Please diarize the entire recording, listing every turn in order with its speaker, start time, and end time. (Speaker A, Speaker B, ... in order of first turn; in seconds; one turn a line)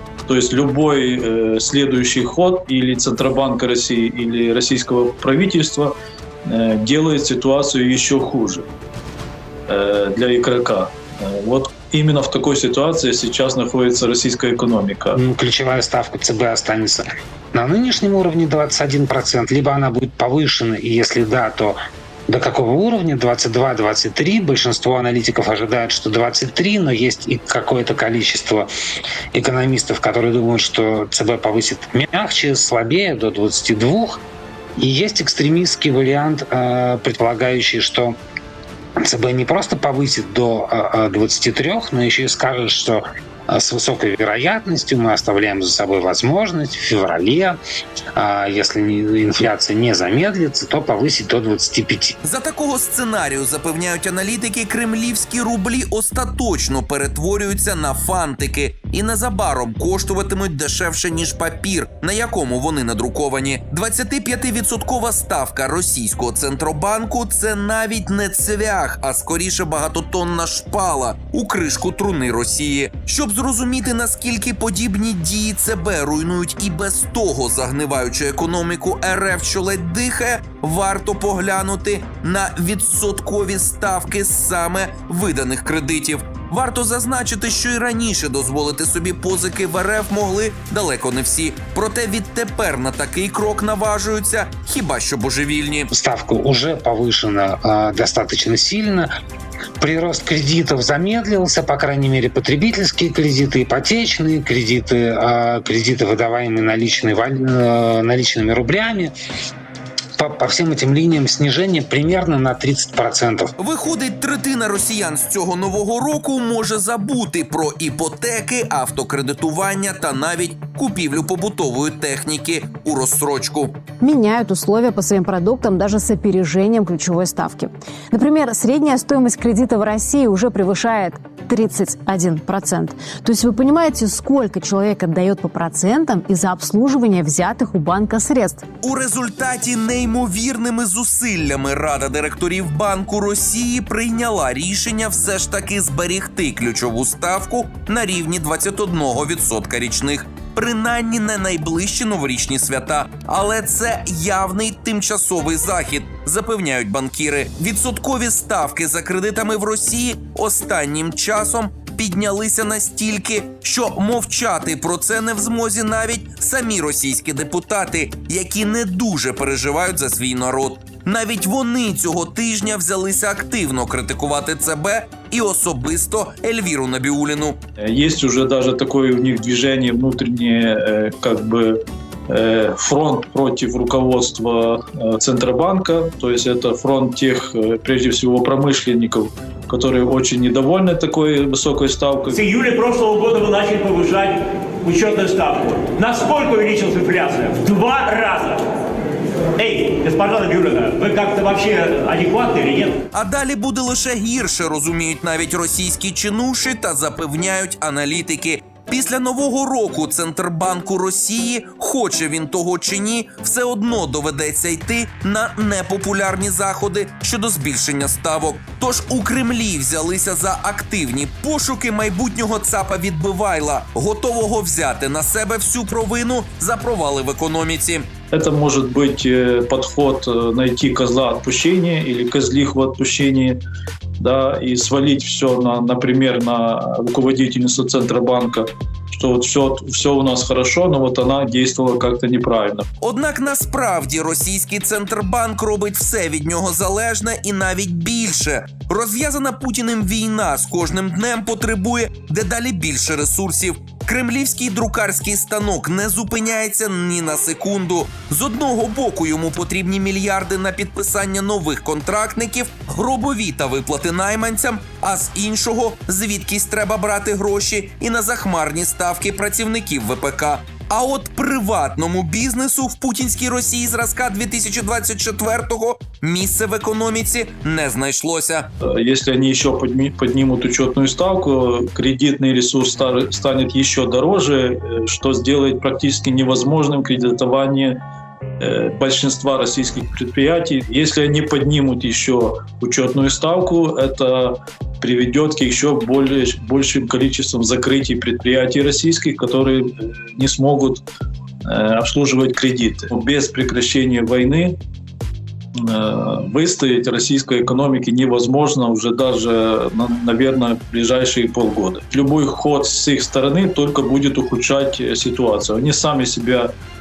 Speaker A: 0.2-5.9
Speaker A: 6.5-8.7
Speaker A: 9.7-15.2
Speaker B: 15.1-28.7
Speaker B: 29.3-34.2
Speaker B: 34.8-38.1
Speaker B: 39.0-47.6
Speaker B: 48.1-52.1
Speaker C: 52.2-95.9
Speaker B: 95.9-99.1
Speaker B: 99.8-109.1
Speaker B: 110.2-113.5
Speaker C: 113.6-123.8
Speaker D: 124.0-138.6
Speaker C: 138.8-177.6
Speaker A: 177.8-192.4
Speaker E: 192.4-198.7
Speaker E: 199.5-203.0
Speaker C: 203.1-228.1
Speaker A: 228.3-233.6
Speaker A: 234.2-242.8
Speaker C: 243.0-278.7
Speaker A: 278.9-288.0
Speaker A: 288.6-301.1
Speaker A: 301.6-304.8
Speaker A: 305.8-316.7